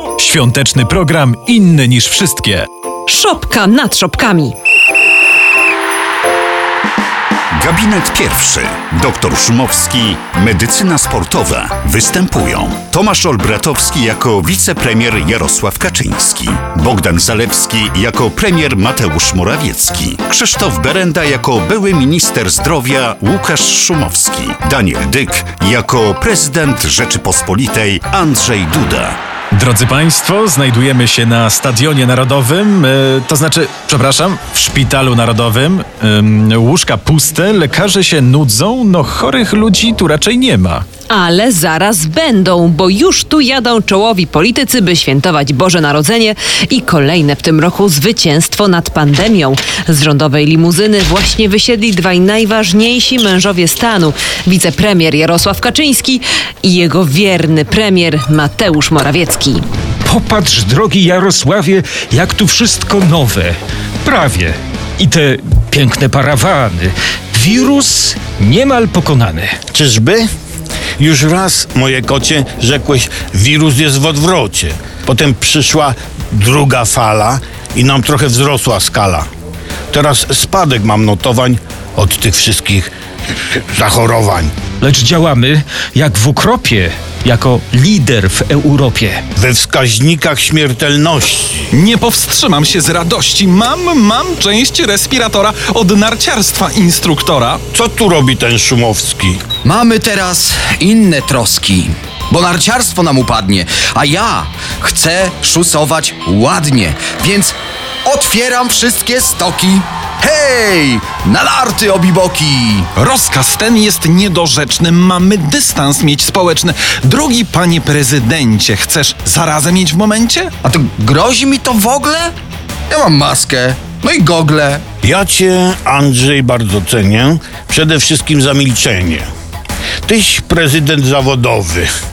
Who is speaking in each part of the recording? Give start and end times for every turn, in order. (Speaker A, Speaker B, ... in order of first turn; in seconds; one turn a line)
Speaker A: 0.2-2.6
Speaker B: 3.1-4.5
Speaker C: 7.6-29.2
Speaker A: 29.5-40.8
Speaker B: 41.1-59.6
Speaker D: 60.1-69.5
Speaker E: 69.7-70.3
Speaker E: 71.0-79.3
Speaker E: 79.9-82.9
Speaker E: 83.5-84.5
Speaker D: 84.8-89.2
Speaker E: 89.3-91.7
Speaker F: 91.7-97.6
Speaker E: 97.7-99.4
Speaker G: 99.6-107.5
Speaker G: 108.0-112.9
Speaker F: 113.0-120.5
Speaker G: 120.6-122.3
Speaker G: 122.9-124.8
Speaker E: 125.0-129.3
Speaker E: 130.1-131.9